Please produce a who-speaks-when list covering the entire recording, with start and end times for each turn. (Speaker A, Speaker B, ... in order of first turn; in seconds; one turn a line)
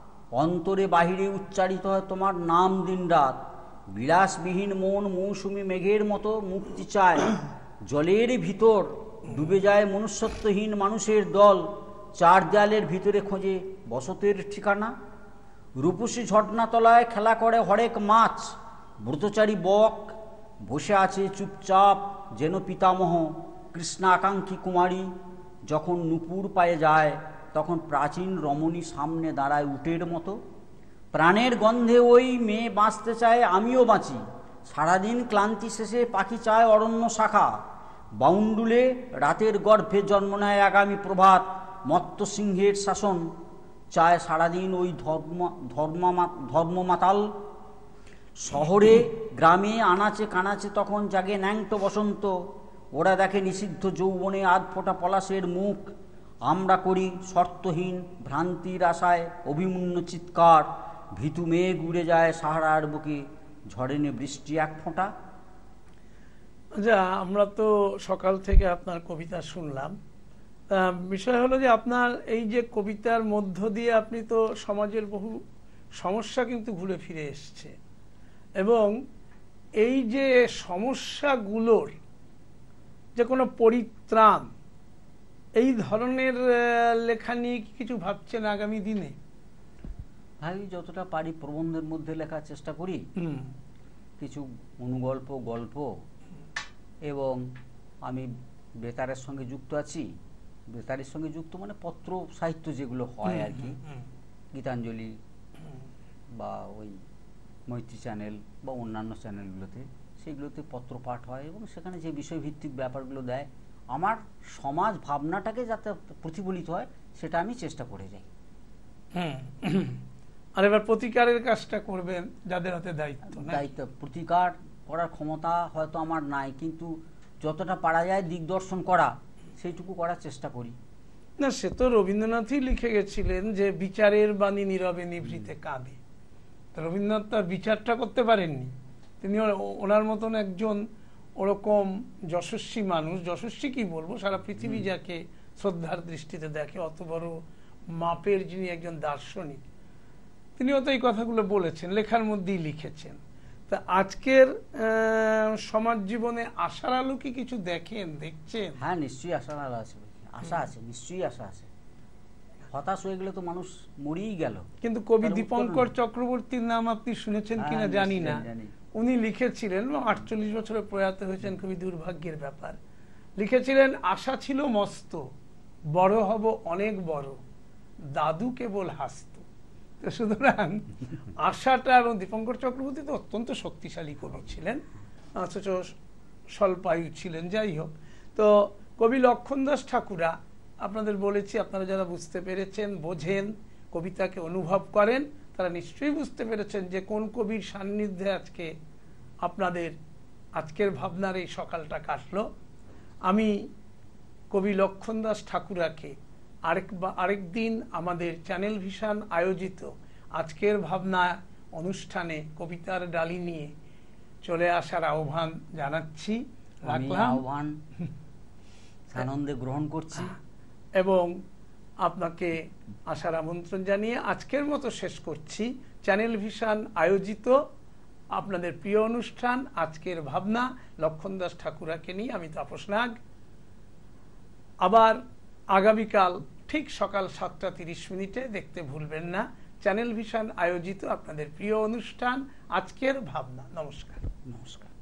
Speaker A: 0.3-7.3
Speaker A: 7.8-14.9
Speaker A: 15.8-25.1
Speaker A: 25.7-30.4
Speaker A: 31.1-37.6
Speaker A: 38.2-43.3
Speaker A: 43.9-47.3
Speaker A: 48.4-52.3
Speaker A: 52.9-55.9
Speaker A: 56.5-65.1
Speaker B: 66.8-69.9
Speaker B: 70.7-75.4
Speaker B: 76.0-77.7
Speaker B: 78.6-78.9
Speaker B: 79.8-81.9
Speaker B: 83.2-84.5
Speaker B: 85.6-89.1
Speaker A: 90.4-93.0
Speaker B: 93.2-93.5
Speaker A: 94.2-96.0
Speaker A: 97.0-97.4
Speaker A: 98.8-100.1
Speaker A: 100.7-103.8
Speaker A: 104.5-105.2
Speaker A: 106.3-107.0
Speaker A: 107.7-118.3
Speaker B: 119.1-120.0
Speaker B: 120.5-123.6
Speaker A: 123.3-130.8
Speaker B: 131.4-136.0
Speaker B: 136.7-140.8
Speaker B: 141.4-147.4
Speaker A: 144.6-144.9
Speaker B: 147.9-149.7
Speaker B: 150.6-153.2
Speaker B: 153.7-158.8
Speaker A: 158.8-161.7
Speaker A: 162.7-164.7
Speaker B: 164.8-168.4
Speaker A: 165.2-165.9
Speaker A: 167.6-168.7
Speaker B: 168.9-172.8
Speaker B: 173.4-175.2
Speaker B: 175.9-177.4
Speaker B: 178.1-179.4
Speaker B: 180.0-184.8
Speaker B: 185.3-185.9
Speaker B: 186.5-198.7
Speaker B: 199.4-199.9
Speaker B: 200.6-202.5
Speaker B: 203.3-203.6
Speaker B: 204.5-206.1
Speaker B: 206.7-213.7
Speaker B: 214.4-217.4
Speaker A: 216.9-217.8
Speaker A: 219.1-220.3
Speaker B: 221.0-221.3
Speaker B: 222.0-227.6
Speaker B: 228.3-233.2
Speaker B: 234.8-235.2
Speaker B: 235.7-244.2
Speaker A: 244.4-244.9